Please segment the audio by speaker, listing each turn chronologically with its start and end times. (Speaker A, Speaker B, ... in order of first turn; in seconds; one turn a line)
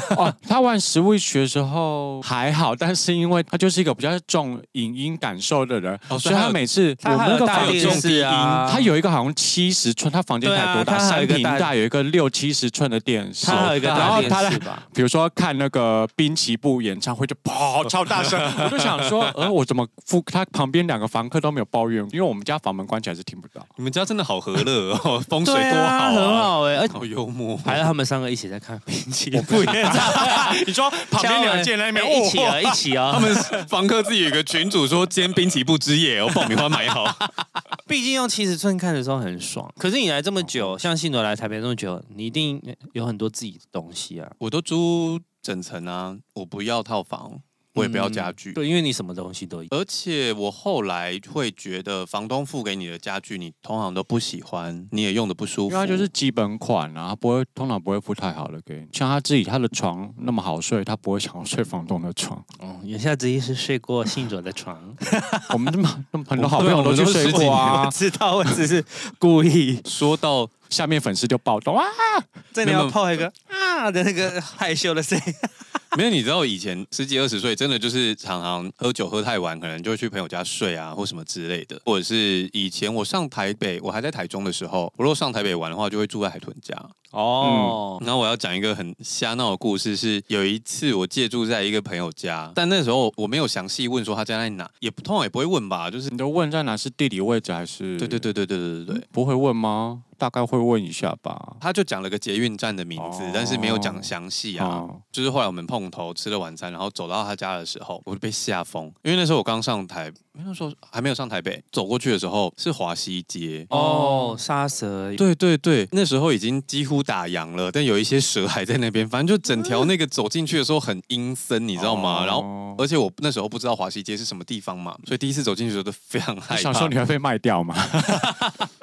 Speaker A: 0.1-8.1
Speaker B: 6.1-6.6
Speaker C: 7.0-8.9
Speaker B: 7.5-8.8
Speaker A: 8.7-23.7
Speaker C: 10.4-11.7
Speaker C: 13.4-14.8
Speaker B: 13.4-14.4
Speaker B: 18.1-19.3
Speaker B: 23.8-27.9
Speaker C: 25.4-26.9
Speaker C: 27.6-33.5
Speaker A: 29.3-32.8
Speaker B: 33.1-37.4
Speaker C: 37.9-44.4
Speaker A: 40.4-40.7
Speaker B: 44.4-48.6
Speaker C: 47.8-49.7
Speaker B: 49.7-56.1
Speaker A: 55.7-62.5
Speaker C: 62.6-65.6
Speaker A: 65.5-68.0
Speaker B: 66.4-67.9
Speaker C: 67.2-69.9
Speaker B: 69.8-70.5
Speaker A: 70.7-72.3
Speaker C: 72.5-75.7
Speaker B: 72.6-73.0
Speaker B: 75.9-86.9
Speaker C: 87.1-88.0
Speaker A: 87.4-87.8
Speaker B: 88.0-96.1
Speaker A: 96.1-98.3
Speaker B: 98.0-99.0
Speaker A: 98.9-101.6
Speaker B: 101.6-113.7
Speaker A: 103.0-105.0
Speaker A: 113.7-114.4
Speaker C: 113.7-115.2
Speaker B: 115.2-126.9
Speaker A: 121.8-122.8
Speaker A: 126.5-128.5
Speaker C: 128.1-128.5